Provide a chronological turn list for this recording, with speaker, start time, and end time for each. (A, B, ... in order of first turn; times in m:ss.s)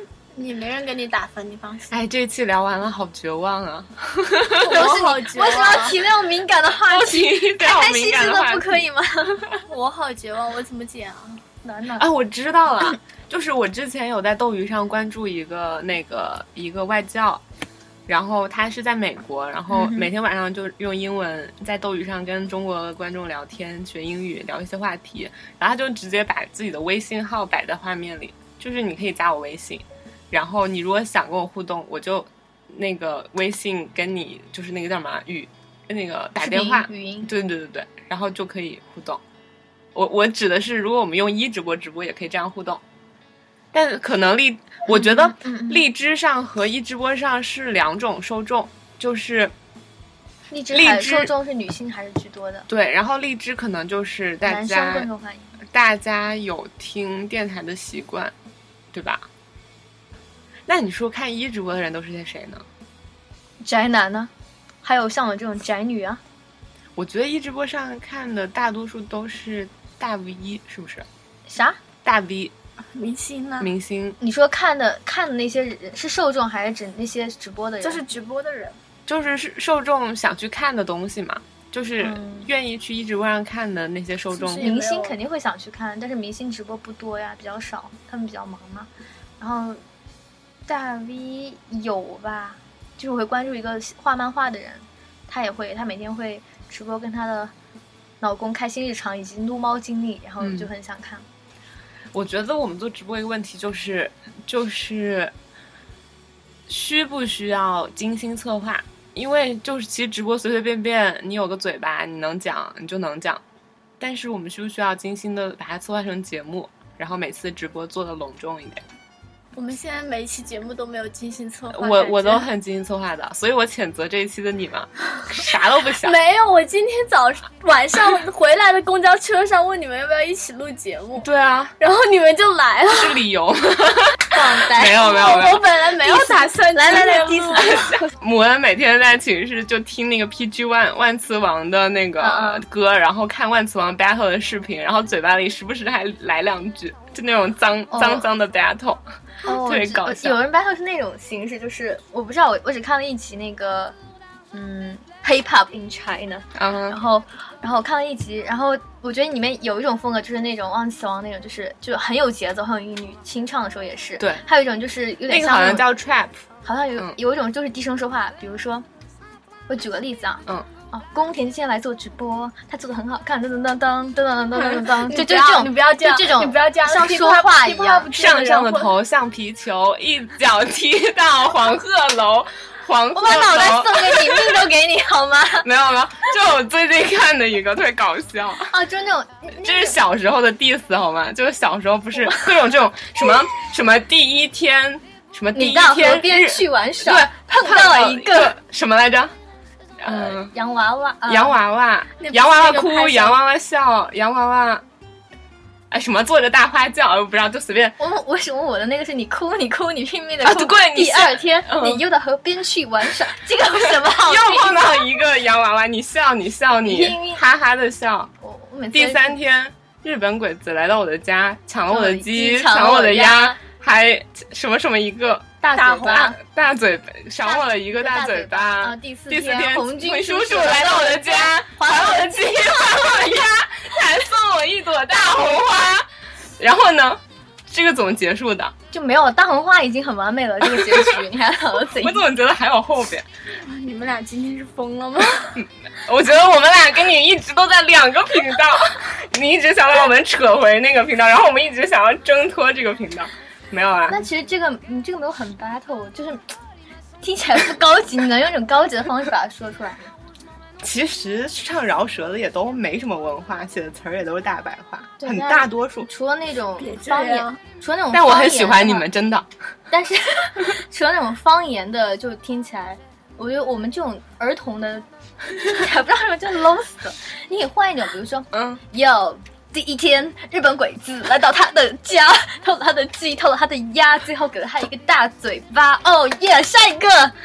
0:00.3-0:01.9 A
0:01.9-0:04.7 B
0:04.6-0:06.0 A
0:04.6-0:09.4 C
0:06.9-0:08.8 B
0:09.6-0:11.4 A
0:11.6-0:12.0 C
0:12.0-0:17.4 B
0:18.1-0:39.2 B
0:19.7-0:20.1 C
0:36.4-0:37.3 C
0:39.9-0:42.8 B
0:43.7-0:49.5 B
0:44.9-0:45.8 C
0:50.5-0:52.7 C
0:50.7-0:51.3 B
0:52.7-0:55.1 B
0:54.4-0:55.6 C
0:55.6-0:58.3 B
0:58.9-0:59.3 B
1:00.7-1:02.6 B
1:03.6-1:04.3 C
1:04.8-1:06.2 C
1:07.0-1:11.1 B
1:11.5-1:11.8 C
1:12.0-1:12.5 B
1:12.9-1:13.7 A
1:13.6-1:14.2 B
1:14.2-1:18.0 C
1:17.8-1:18.8 A
1:19.0-1:24.7 B
1:22.0-1:22.5 C
1:24.3-1:25.2 A
1:24.6-1:28.9 C
1:29.4-1:29.8 C
1:30.7-1:37.5 C
1:38.2-1:41.2 C
1:40.4-1:40.7 B
1:42.1-1:45.3 B
1:46.7-1:53.4 B
1:54.0-1:58.8 B
1:59.5-2:02.5 A
2:01.7-2:06.2 B
2:06.0-2:11.3 A
2:11.2-2:11.8 B
2:11.8-2:13.2 A
2:12.9-2:15.6 B
2:14.3-2:15.4 C
2:15.0-2:17.8 A
2:16.0-2:18.1 C
2:17.7-2:30.4 B
2:22.2-2:22.6 C
2:27.9-2:28.2 C
2:29.4-2:33.9 C
2:34.5-2:45.9 C
2:36.5-2:37.0 B
2:45.3-2:46.4 B
2:46.6-2:48.8 C
2:49.7-2:58.1 C
2:54.6-2:58.9 A
2:58.1-3:04.6 B
3:03.1-3:05.7 C
3:05.6-3:08.7 B
3:08.6-3:10.0 C
3:09.6-3:19.3 B
3:15.5-3:18.5 C
3:20.0-3:20.5 B
3:20.1-3:21.6 C
3:21.3-3:24.8 B
3:22.2-3:23.4 A
3:25.9-3:28.0 B
3:28.0-3:35.0 C
3:30.4-3:32.0 B
3:33.9-3:38.3 B
3:36.8-3:37.4 C
3:38.4-3:39.4 C
3:38.9-3:56.0 B
3:41.9-3:43.6 C
3:45.6-3:46.4 C
3:47.4-3:52.5 C
3:56.6-3:58.7 B
3:58.9-4:02.2 C
4:00.6-4:01.2 B
4:01.9-4:03.3 B
4:03.6-4:05.6 A
4:05.6-4:14.2 B
4:14.1-4:16.5 C
4:17.2-4:20.1 C
4:20.8-4:26.1 B
4:25.2-4:29.1 C
4:26.8-4:27.6 A
4:28.1-4:29.5 B
4:29.9-4:47.3 C
4:38.5-4:38.8 B